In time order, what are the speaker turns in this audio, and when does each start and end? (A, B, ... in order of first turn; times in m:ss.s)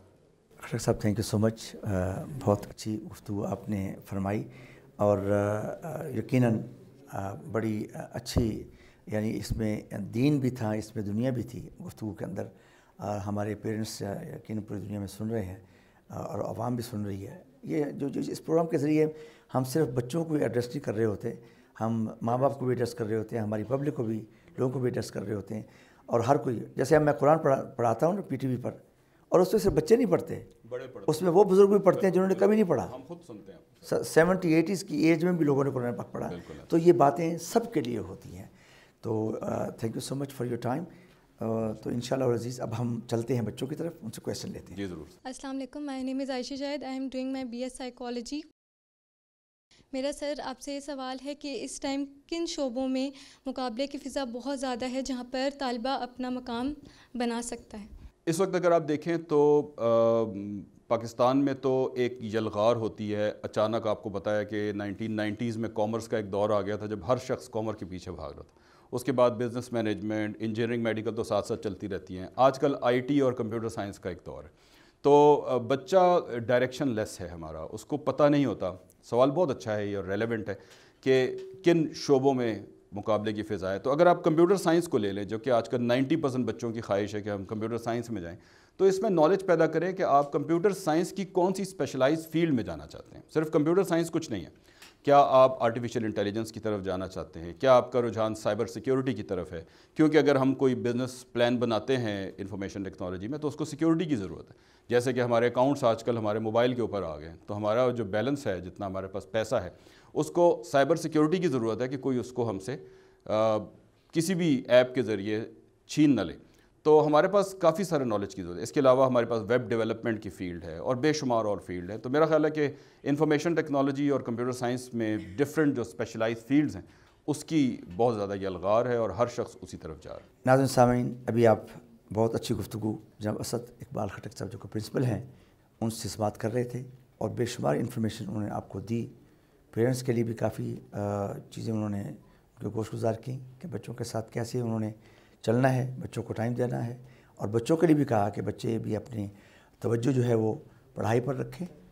0:00.6-0:04.5 A
0:05.0-0:30.5 A
0:30.6-0:31.4 B
0:31.1-0:32.9 A
0:31.9-0:33.9 B
0:33.8-0:38.5 A
0:36.3-0:36.7 B
0:39.0-0:40.9 A
0:41.4-0:44.8 A
0:44.7-0:45.2 B
0:45.2-0:48.4 C
0:49.9-0:57.9 C
0:58.2-2:10.2 B
2:10.4-2:15.3 A
2:15.8-2:19.1 A
2:19.7-2:31.7 A